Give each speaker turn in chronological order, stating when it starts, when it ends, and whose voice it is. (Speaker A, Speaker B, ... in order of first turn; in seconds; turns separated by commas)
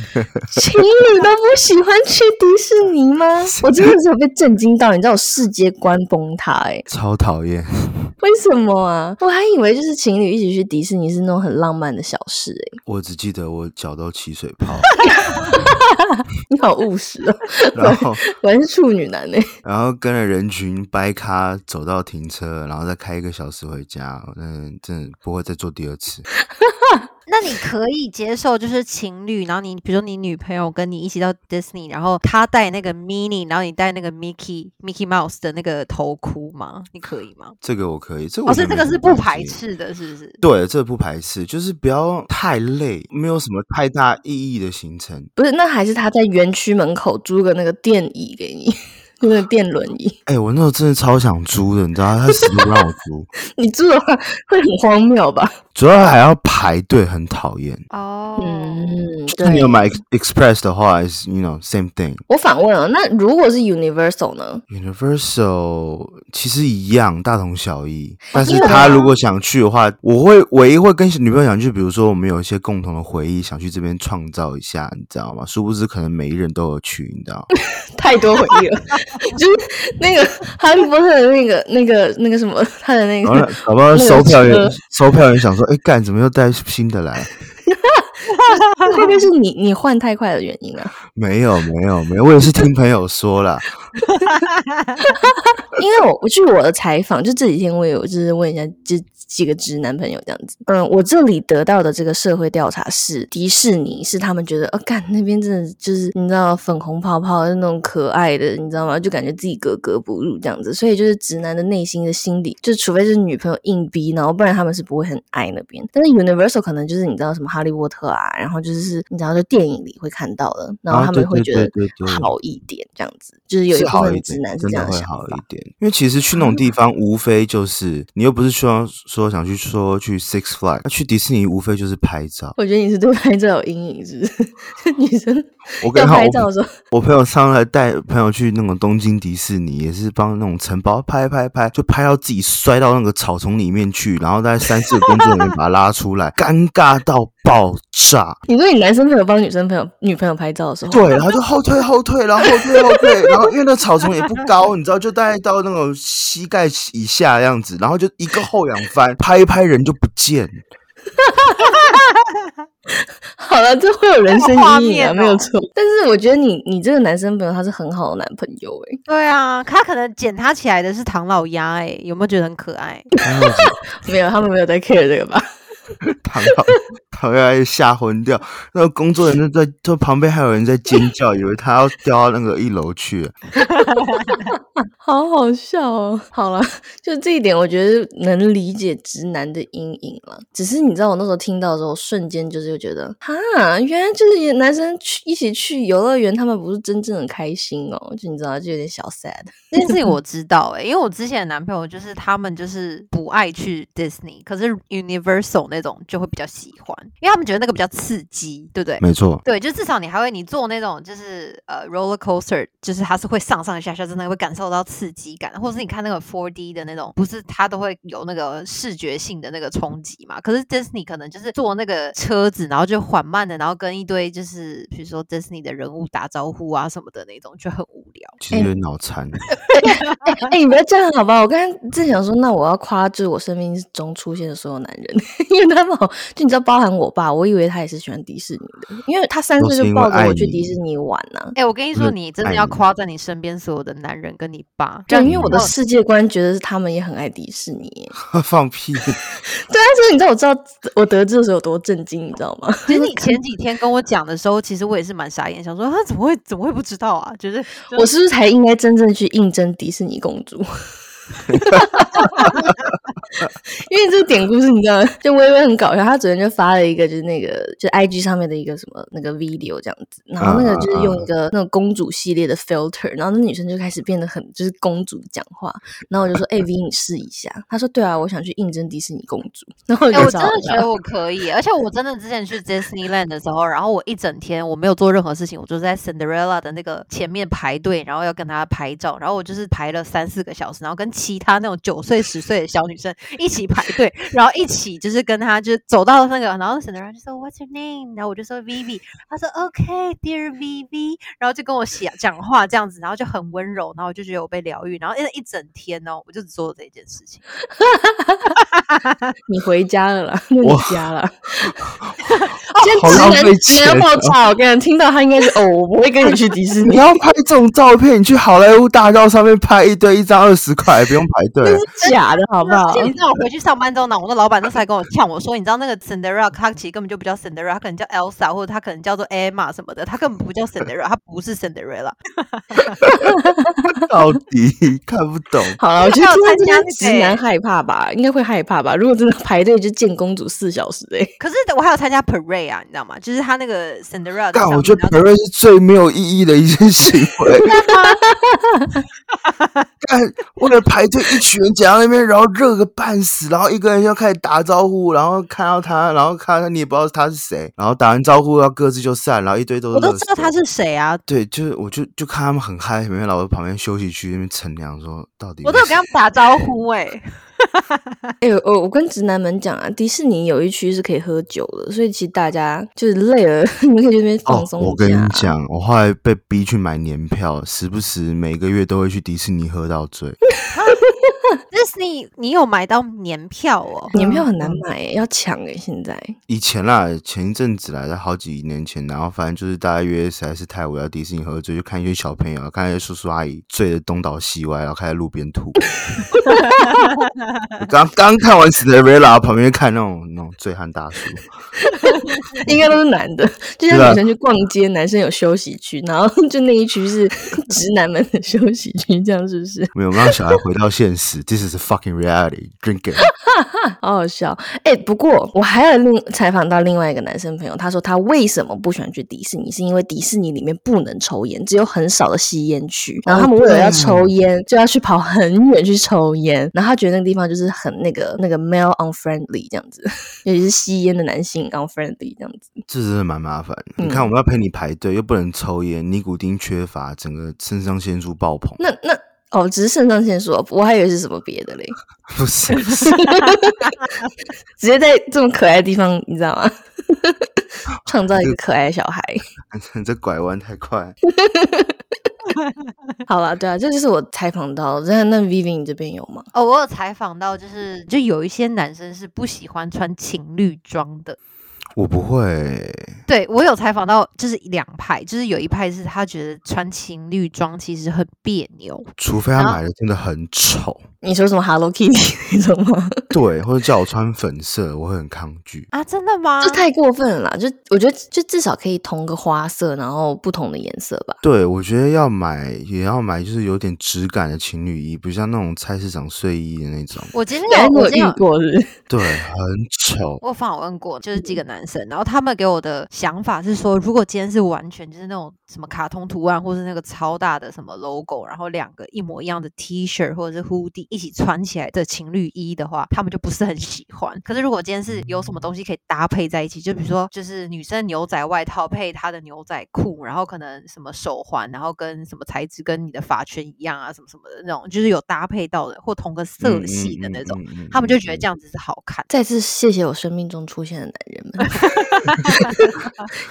Speaker A: 0.1-0.6, Speaker B: 0.5-6.8, Speaker A: 3.5-3.9, Speaker A: 6.9-8.1, Speaker B: 8.2-12.8, Speaker A: 12.9-14.9, Speaker B: 15.2-19.5, Speaker A: 17.7-18.2, Speaker A: 19.6-26.3, Speaker B: 26.6-27.1, Speaker C: 27.3-37.6, Speaker A: 37.6-39.6, Speaker C: 38.5-40.4, Speaker A: 40.4-45.3, Speaker B: 45.4-50.2, Speaker A: 50.3-53.3, Speaker B: 52.3-52.8, Speaker B: 53.6-55.5, Speaker A: 55.8-57.8, Speaker C: 57.9-59.1, Speaker B: 58.4-59.9, Speaker A: 59.3-62.2, Speaker B: 62.3-64.6, Speaker A: 64.7-77.5, Speaker B: 68.3-69.1, Speaker C: 68.4-69.1, Speaker B: 77.6-84.8, Speaker A: 83.2-87.3, Speaker B: 87.7-88.1, Speaker C: 88.3-89.3, Speaker B: 88.8-91.0, Speaker A: 91.2-93.7, Speaker C: 94.0-95.0, Speaker B: 95.1-125.4, Speaker A: 120.9-122.3, Speaker A: 123.7-132.6, Speaker B: 132.6-136.7, Speaker A: 135.8-148.4, Speaker B: 148.5-151.3, Speaker A: 150.9-160.6, Speaker B: 152.5-153.4, Speaker B: 161.2-162.0, Speaker C: 161.6-162.5, Speaker B: 163.4-169.0, Speaker C: 164.3-165.5, Speaker C: 169.1-173.1, Speaker A: 173.2-173.8, Speaker B: 173.2-175.5, Speaker A: 176.1-183.4, Speaker B: 176.5-176.8, Speaker C: 183.6-184.5, Speaker B: 184.4-200.1, Speaker C: 199.7-228.4, Speaker A: 209.0-209.4, Speaker A: 228.4-229.4, Speaker B: 229.7-241.6, Speaker C: 229.8-230.3, Speaker A: 239.6-240.8, Speaker C: 241.6-245.7, Speaker A: 241.9-242.8, Speaker B: 245.1-248.2, Speaker A: 245.2-245.6, Speaker A: 248.2-249.2, Speaker B: 249.5-253.4, Speaker C: 252.9-258.1, Speaker B: 257.9-260.7, Speaker A: 261.5-262.5, Speaker B: 261.5-262.6, Speaker C: 262.2-262.6, Speaker B: 263.8-280.9, Speaker A: 270.4-271.3, Speaker C: 280.1-307.4, Speaker B: 307.8-308.6, Speaker C: 308.6-309.3, Speaker B: 309.5-311.8, Speaker A: 310.6-311.1, Speaker A: 311.7-312.1, Speaker C: 312.2-313.4, Speaker B: 312.8-317.1, Speaker A: 312.9-314.4, Speaker A: 316.9-321.8, Speaker B: 321.6-323.1, Speaker C: 322.0-333.1, Speaker A: 333.0-333.3, Speaker B: 333.2-334.1, Speaker A: 334.0-335.8, Speaker B: 335.8-341.4, Speaker C: 336.0-337.4, Speaker C: 341.4-345.2, Speaker A: 344.5-347.7, Speaker C: 347.6-348.2, Speaker B: 347.6-349.0, Speaker C: 349.4-349.9, Speaker A: 350.0-360.5, Speaker C: 359.9-361.2, Speaker A: 361.3-366.0, Speaker C: 365.6-368.2, Speaker B: 368.4-375.6, Speaker A: 374.5-380.4, Speaker C: 380.7-381.1, Speaker C: 381.7-384.2, Speaker B: 384.1-386.4, Speaker A: 384.1-384.8, Speaker A: 386.5-395.8, Speaker B: 396.3-397.0, Speaker A: 397.8-401.5, Speaker B: 401.8-410.6, Speaker A: 402.6-402.9, Speaker A: 403.9-404.2, Speaker A: 409.9-413.3, Speaker B: 413.2-432.8, Speaker A: 423.3-424.3, Speaker A: 432.9-438.8, Speaker B: 434.0-434.3, Speaker B: 438.8-442.0, Speaker A: 442.3-443.2, Speaker C: 442.8-444.3, Speaker B: 443.0-443.9, Speaker B: 444.8-447.5, Speaker B: 448.1-449.4, Speaker A: 449.7-451.1, Speaker B: 451.2-452.0, Speaker C: 452.5-452.9, Speaker B: 453.3-456.5, Speaker C: 456.5-461.4, Speaker A: 462.0-463.1, Speaker C: 463.3-469.8, Speaker A: 469.2-471.0, Speaker B: 471.2-473.3, Speaker A: 473.3-475.9, Speaker C: 475.9-476.9, Speaker B: 476.6-481.4, Speaker A: 481.4-487.3, Speaker C: 487.3-488.4, Speaker B: 487.7-489.0, Speaker A: 489.1-490.4, Speaker C: 490.4-519.3, Speaker A: 516.6-518.5, Speaker B: 519.3-523.0, Speaker C: 521.6-523.0